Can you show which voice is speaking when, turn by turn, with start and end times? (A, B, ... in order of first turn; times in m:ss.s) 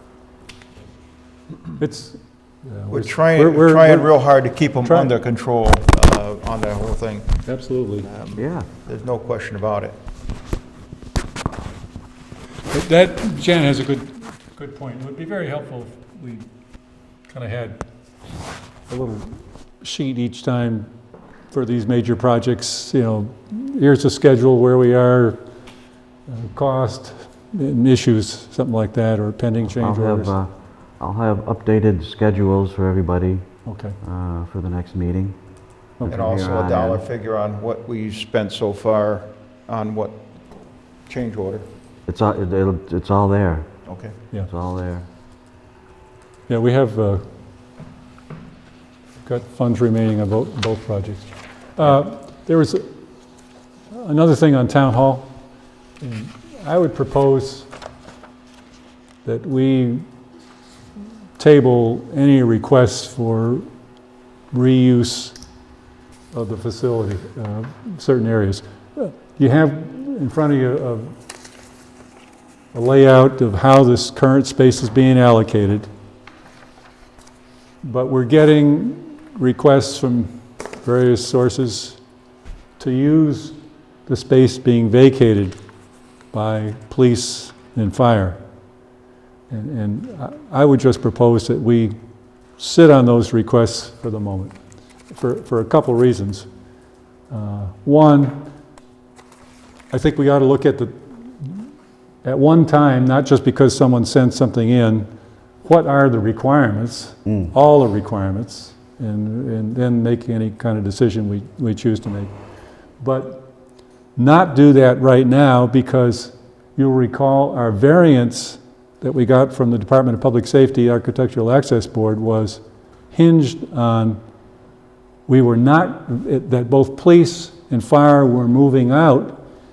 0:01.8-0:04.2 A
0:02.9-0:07.4 B
0:04.8-0:05.1 A
0:07.4-0:08.1 A
0:08.0-0:10.0 B
0:08.4-0:08.6 C
0:12.7-0:16.5 A
0:17.3-0:17.8 A
0:18.9-0:20.9 A
0:21.5-0:25.4 A
0:26.3-0:30.3 A
0:29.6-0:33.4 C
0:33.6-0:34.0 A
0:34.0-0:35.4 C
0:36.0-0:36.3 A
0:36.0-0:37.0 C
0:36.0-0:40.2 B
0:41.0-0:41.6 B
0:42.1-0:43.7 C
0:43.8-0:44.1 B
0:44.5-0:45.0 C
0:46.5-0:47.3 A
0:49.2-0:52.9 A
0:53.9-0:55.4 A
0:56.0-0:57.7 A
0:59.2-1:00.1 A
1:01.4-1:03.7 A
1:04.5-1:05.4 A
1:06.3-1:11.1 A
1:12.7-1:15.9 A
1:17.8-1:22.0 A
1:22.8-1:25.6 A
1:26.3-1:28.4 A
1:29.5-1:32.0 A
1:32.6-1:34.5 A
1:35.1-1:36.5 A
1:37.3-1:38.4 A
1:39.9-1:41.7 A
1:42.2-1:45.1 A
1:45.6-1:52.3 A
1:47.3-1:47.5 C
1:53.0-1:53.5 A
1:54.2-2:04.2 A
2:05.3-2:09.4 A